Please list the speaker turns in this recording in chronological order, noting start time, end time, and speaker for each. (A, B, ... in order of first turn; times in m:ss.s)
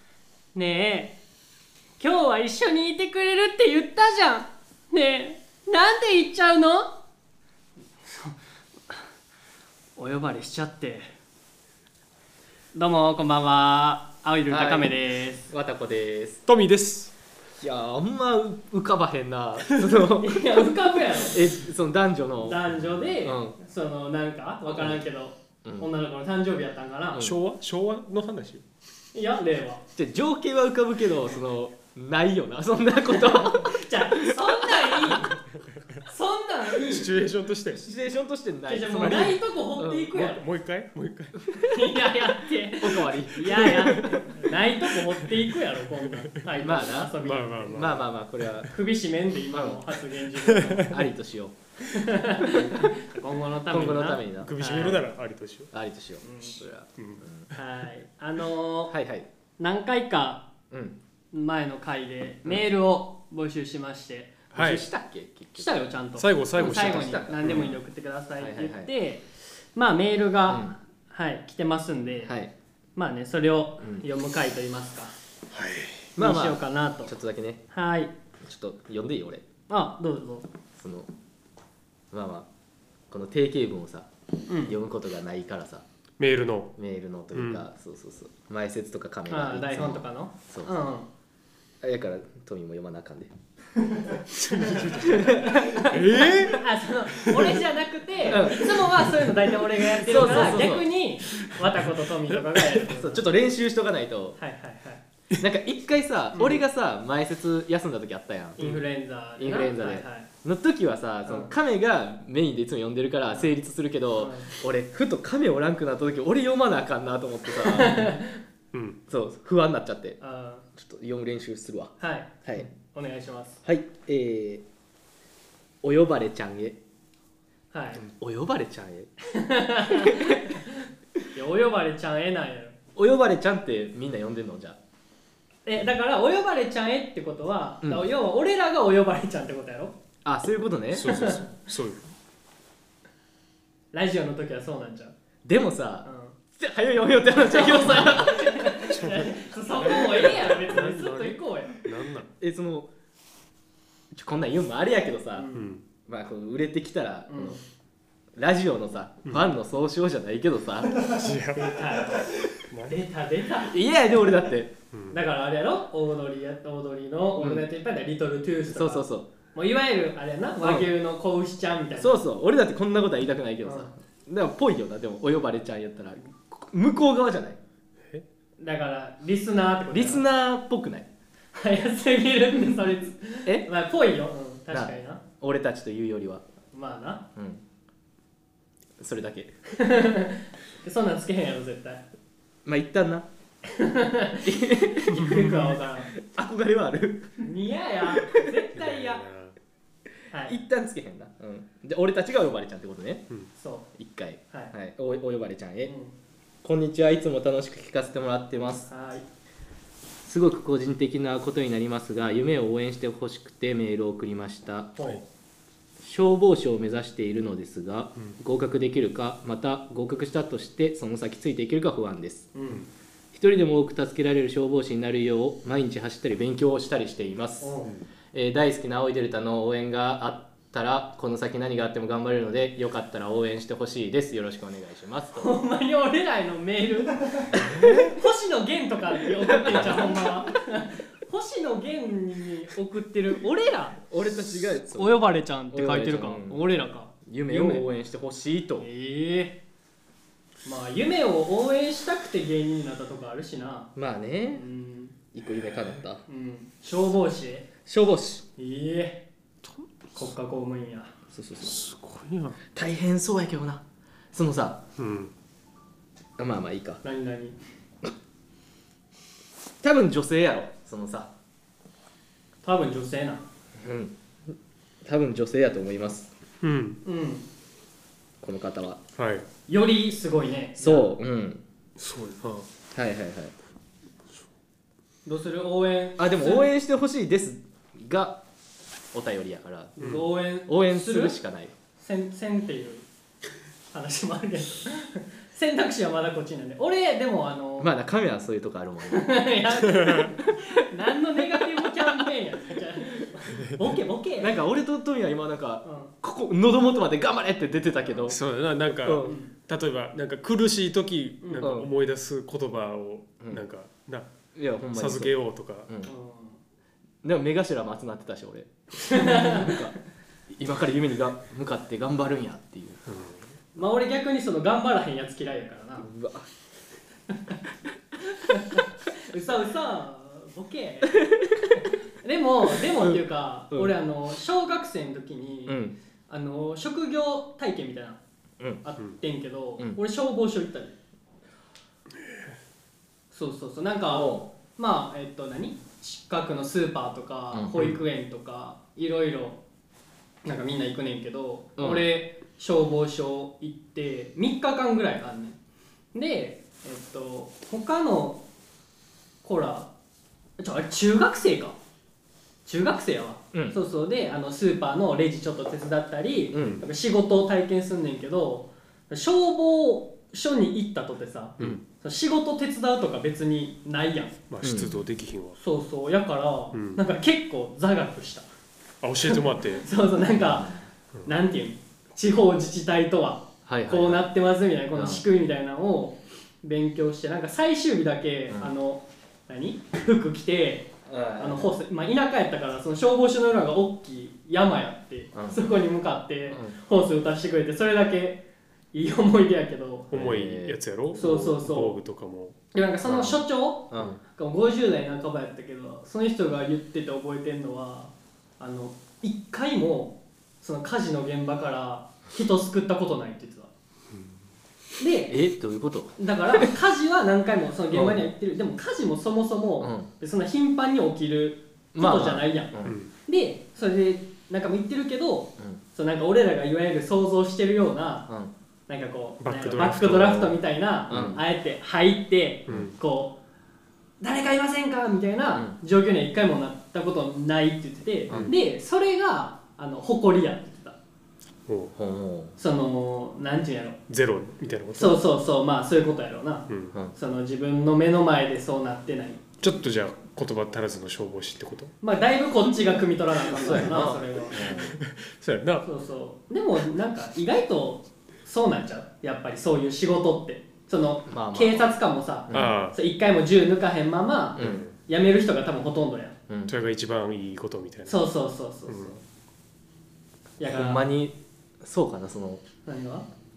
0:00.5-0:01.2 A
0:02.0-0:07.0 A
0:08.0-0:08.4 A
0:10.0-0:11.1 A
0:12.7-0:15.5 A
0:14.5-0:16.4 B
0:16.4-0:17.1 C
0:17.6-0:22.6 B
0:20.0-0:21.5 A
0:22.4-0:27.2 A
0:23.2-0:23.6 B
0:24.6-0:25.0 B
0:27.1-0:28.6 C
0:29.1-0:29.8 A
0:29.9-0:35.3 B
0:33.1-0:35.4 A
0:36.0-0:37.1 A
0:36.8-0:37.8 C
0:37.7-0:40.1 B
0:38.7-0:40.4 A
0:39.0-0:39.4 C
0:40.1-0:41.4 C
0:41.4-0:41.9 B
0:41.6-0:48.0 A
0:42.8-0:44.3 B
0:43.5-0:44.3 C
0:46.0-0:46.4 C
0:46.6-0:48.7 B
0:47.2-0:48.6 C
0:48.6-0:51.0 A
0:49.5-0:49.8 B
0:50.4-0:50.8 C
0:50.8-0:51.5 B
0:51.8-0:55.0 A
0:52.4-0:52.7 B
0:53.6-0:54.5 B
0:54.4-0:55.7 C
0:55.7-0:57.5 B
0:56.2-0:56.6 A
0:57.0-0:57.2 C
0:57.5-0:59.0 A
0:58.9-0:59.3 B
0:59.6-1:00.5 A
1:00.7-1:01.0 B
1:01.3-1:04.4 A
1:04.5-1:04.8 C
1:04.5-1:05.8 B
1:05.6-1:12.3 A
1:06.2-1:07.6 C
1:06.5-1:07.8 B
1:08.4-1:08.9 B
1:10.5-1:10.8 B
1:12.2-1:12.5 B
1:13.0-1:15.1 A
1:13.8-1:14.1 B
1:15.5-1:16.1 C
1:16.2-1:17.6 B
1:16.2-1:17.1 A
1:17.7-1:18.1 A
1:18.4-1:19.4 B
1:19.7-1:20.5 A
1:20.8-1:21.1 B
1:22.1-1:22.5 B
1:23.1-1:24.1 B
1:24.5-1:24.8 A
1:24.6-1:25.8 B
1:26.2-1:26.7 C
1:26.8-1:30.7 B
1:27.3-1:27.6 C
1:29.3-1:31.1 A
1:31.8-1:33.3 B
1:34.0-1:36.4 B
1:34.4-1:37.6 C
1:34.6-1:43.2 A
1:38.2-1:38.7 B
1:39.9-1:40.8 B
1:40.2-1:40.5 C
1:42.7-1:43.0 C
1:42.9-1:44.4 B
1:44.4-1:45.0 A
1:45.4-1:48.7 B
1:46.3-1:46.6 A
1:48.6-1:50.3 A
1:49.4-1:58.2 B
1:51.2-1:51.5 A
1:54.2-1:54.5 A
1:57.6-1:58.4 A
1:58.7-1:59.0 C
1:59.1-2:00.2 B
2:00.2-2:00.7 A
2:00.7-2:02.7 B
2:02.0-2:03.6 A
2:03.6-2:04.6 B
2:05.8-2:06.8 B
2:07.7-2:08.0 A
2:08.0-2:09.1 B
2:09.3-2:12.8 A
2:09.8-2:10.6 B
2:13.0-2:14.8 B
2:15.6-2:20.0 A
2:17.8-2:18.1 B
2:20.2-2:21.2 B
2:20.9-2:22.0 C
2:21.0-2:21.4 A
2:23.9-2:25.1 A
2:25.4-2:28.8 B
2:26.0-2:26.4 A
2:27.4-2:31.8 A
2:28.8-2:32.3 C
2:32.4-2:32.9 B
2:34.1-2:35.5 B
2:35.4-2:35.7 A
2:35.5-2:35.8 C
2:36.0-2:37.6 B
2:37.3-2:37.6 A
2:38.3-2:41.3 B
2:41.1-2:42.0 C
2:41.6-2:43.8 A
2:42.6-2:43.0 C
2:43.6-2:44.7 B
2:44.9-2:45.2 C
2:45.1-2:52.2 A
2:47.4-2:47.6 B
2:48.7-2:49.3 B
2:50.6-2:50.9 B
2:52.0-2:57.6 B
2:53.6-2:53.9 A
2:58.6-3:00.2 A
2:59.9-3:01.1 B
3:01.5-3:05.2 A
3:04.7-3:06.4 B
3:06.7-3:07.3 A
3:07.4-3:07.6 B
3:09.0-3:09.6 B
3:09.8-3:12.0 A
3:12.6-3:13.3 B
3:13.7-3:14.5 A
3:14.4-3:17.5 B
3:15.0-3:16.1 A
3:15.2-3:15.7 C
3:17.4-3:19.2 A
3:18.1-3:18.4 B
3:18.7-3:19.6 C
3:20.3-3:20.6 A
3:20.4-3:23.3 B
3:23.6-3:23.9 A
3:24.0-3:25.9 B
3:25.8-3:26.1 A
3:26.6-3:28.9 B
3:28.9-3:29.2 A
3:30.2-3:35.1 B
3:35.0-3:35.2 A
3:36.0-3:42.5 B
3:42.5-3:42.8 A
3:43.3-3:47.8 B
3:47.6-3:47.9 A
3:48.3-3:55.5 B
3:55.3-4:04.0 A
3:57.6-3:58.1 C
3:59.3-4:00.4 B
4:04.1-4:06.6 B
4:04.7-4:07.8 A
4:07.2-4:08.9 B
4:08.8-4:09.6 A
4:10.6-4:13.9 A
4:14.0-4:14.6 B
4:14.5-4:15.2 A
4:15.3-4:16.2 B
4:16.3-4:17.6 A
4:17.8-4:18.5 B
4:18.6-4:19.2 A
4:20.2-4:21.1 A
4:21.3-4:21.8 B
4:21.6-4:22.6 C
4:22.7-4:24.8 B
4:25.0-4:25.3 C
4:26.4-4:27.0 B
4:27.0-4:27.6 A
4:29.8-4:31.3 B
4:32.6-4:33.4 A
4:33.8-4:36.3 B
4:36.6-4:37.0 C
4:37.0-4:37.4 A
4:38.4-4:39.0 B
4:39.2-4:39.4 C
4:39.7-4:41.1 A
4:40.8-4:41.6 B
4:42.0-4:42.7 C
4:42.9-4:43.5 B
4:45.2-4:46.7 A
4:46.2-4:48.4 B
4:49.1-4:51.7 B
4:50.0-4:51.4 A
4:52.0-4:53.0 A
4:53.9-4:57.9 A
4:57.8-4:59.4 B
4:59.1-5:04.6 A
4:59.9-5:00.3 C
5:03.5-5:03.8 C
5:04.4-5:08.4 B
5:05.8-5:06.1 A
5:08.2-5:14.3 C
5:09.0-5:09.4 B
5:09.2-5:09.5 A
5:11.4-5:11.7 A
5:11.6-5:11.9 B
5:14.5-5:15.4 B
5:14.9-5:15.9 C
5:16.0-5:16.6 A
5:17.2-5:19.9 B
5:19.0-5:19.9 A
5:20.5-5:23.0 B
5:23.1-5:23.4 C
5:23.7-5:26.1 A
5:26.0-5:26.5 B
5:27.3-5:27.6 A
5:28.2-5:38.2 A
5:31.1-5:31.8 B
5:32.9-5:33.9 B
5:35.7-5:36.0 B
5:38.8-5:41.0 A
5:43.3-5:49.6 A
5:44.1-5:44.5 B
5:47.5-5:47.9 B
5:50.4-5:55.6 A
5:51.8-5:52.1 B
5:56.1-5:58.4 A
5:59.4-5:59.9 A
6:00.6-6:01.8 A
6:02.6-6:14.4 A
6:03.5-6:03.8 B
6:06.5-6:06.8 B
6:14.5-6:15.6 C
6:14.6-6:15.0 B
6:15.6-6:18.5 A
6:16.7-6:17.0 C
6:19.0-6:19.8 C
6:19.2-6:40.1 A
6:20.3-6:20.8 B
6:23.6-6:24.3 B
6:24.9-6:25.2 B
6:31.0-6:31.7 B
6:35.3-6:35.6 B
6:40.1-6:42.6 C
6:40.1-6:41.4 B
6:41.2-6:42.0 A
6:42.7-6:53.7 A
6:43.0-6:44.2 B
6:55.0-6:55.4 A
6:55.3-6:56.7 B
6:56.2-7:08.3 A
6:57.9-6:58.2 B
6:59.8-7:00.1 B
7:01.9-7:03.0 B
7:08.9-7:13.4 A
7:09.4-7:10.6 C
7:11.1-7:11.4 B
7:14.2-7:21.0 A
7:21.7-7:21.9 C
7:22.0-7:22.6 B
7:22.6-7:24.0 A
7:24.1-7:25.2 C
7:25.0-7:29.4 A
7:26.7-7:26.9 C
7:29.6-7:31.9 C
7:32.0-7:34.9 A
7:33.5-7:35.0 B
7:34.6-7:35.9 C
7:35.8-7:46.4 A
7:41.2-7:41.9 B
7:42.5-7:42.8 B
7:42.5-7:43.0 C
7:44.6-7:44.8 B
7:44.6-7:44.9 C
7:46.5-7:46.7 B
7:46.7-7:48.2 C
7:48.1-7:49.2 A
7:48.9-7:49.2 C
7:50.6-7:51.1 A
7:50.6-7:52.6 B
7:52.8-7:53.3 A